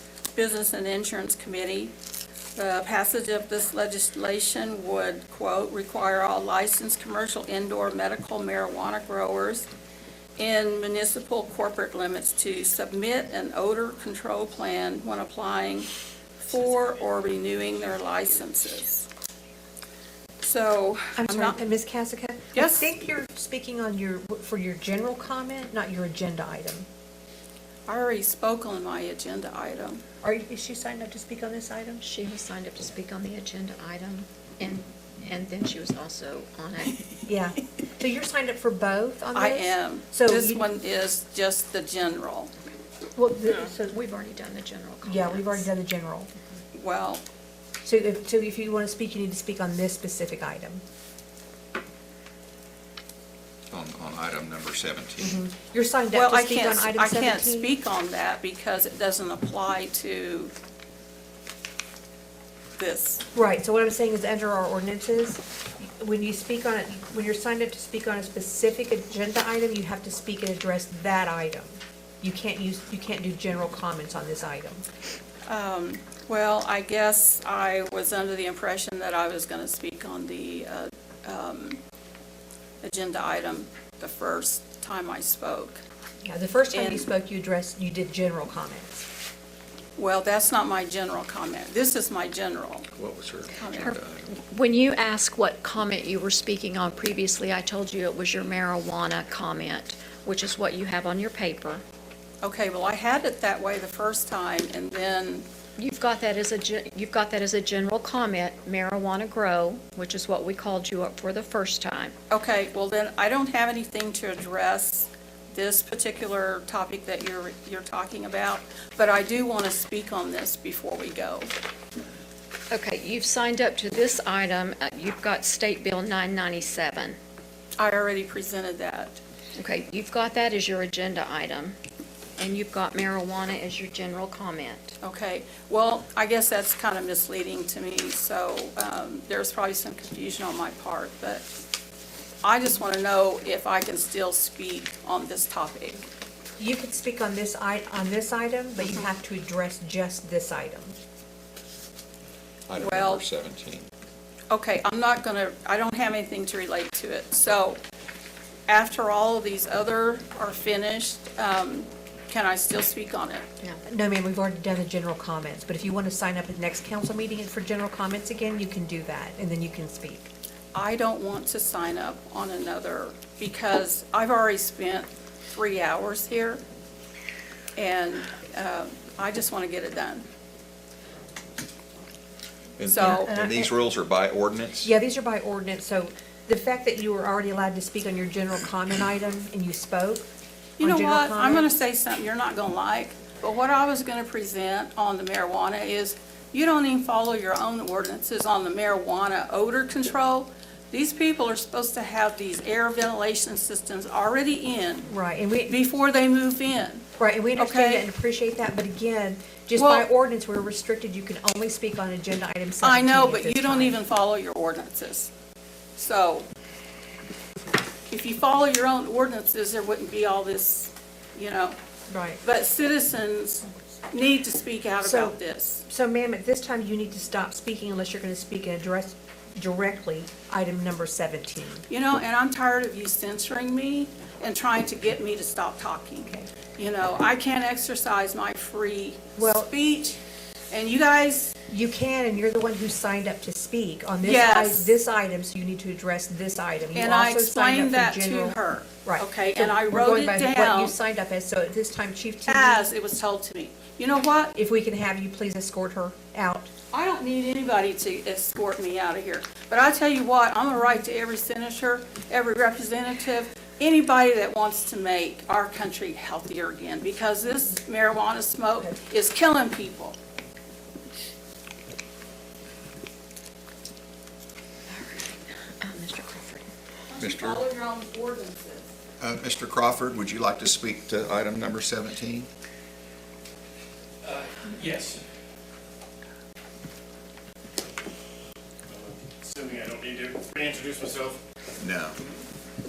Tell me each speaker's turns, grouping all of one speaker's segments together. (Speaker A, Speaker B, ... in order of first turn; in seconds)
Speaker A: 0.3-1.9, 2.5-9.7, 10.4-15.9, 16.4-19.1, 20.4-21.6, 22.5-22.9, 27.9-30.0, 39.3-42.5, 46.7-47.2, 56.1-60.5, 62.8-63.2, 75.5-81.8, 82.8-85.8, 86.7-87.1, 90.0-92.9, 93.5-94.0, 102.4-105.5, 112.3-121.5, 127.8-129.2, 135.0-141.4, 142.4-146.0, 152.8-153.2, 154.5-157.8, 158.7-163.4, 170.7-176.6, 177.8-180.2, 182.9-183.3, 190.8-205.1, 205.7-207.0, 207.6-208.1, 209.8-210.1, 212.8-215.3, 216.0-216.5, 218.1-221.8, 222.4-225.8, 231.9-240.2, 240.7-241.5, 244.2-244.9, 246.9-250.9, 252.5-254.5, 256.9-270.2, 277.1-278.9
Speaker B: 21.2-26.9, 30.2-32.0, 37.2-40.6, 43.2-44.0, 45.0-46.3, 47.8-50.8, 55.2-57.7, 63.3-74.8, 86.2-89.1, 146.6-151.0, 163.8-170.3, 183.0-183.7, 184.8-190.3, 190.8-191.7, 205.1-205.8, 207.2-214.0, 222.1-222.4, 225.0-231.8, 239.4-239.7, 241.7-252.9, 254.6-256.7
Speaker C: 32.0-37.0, 43.9-45.7, 93.6-101.8, 105.8-112.2, 122.7-127.2, 129.6-131.8, 132.4-134.9, 274.9-276.7
Speaker D: 53.7-55.4, 92.9-94.3, 152.7-153.9, 182.8-184.9, 277.2-277.6, 279.2-282.5, 291.8-292.2
Speaker E: 284.3-285.2, 288.9-291.4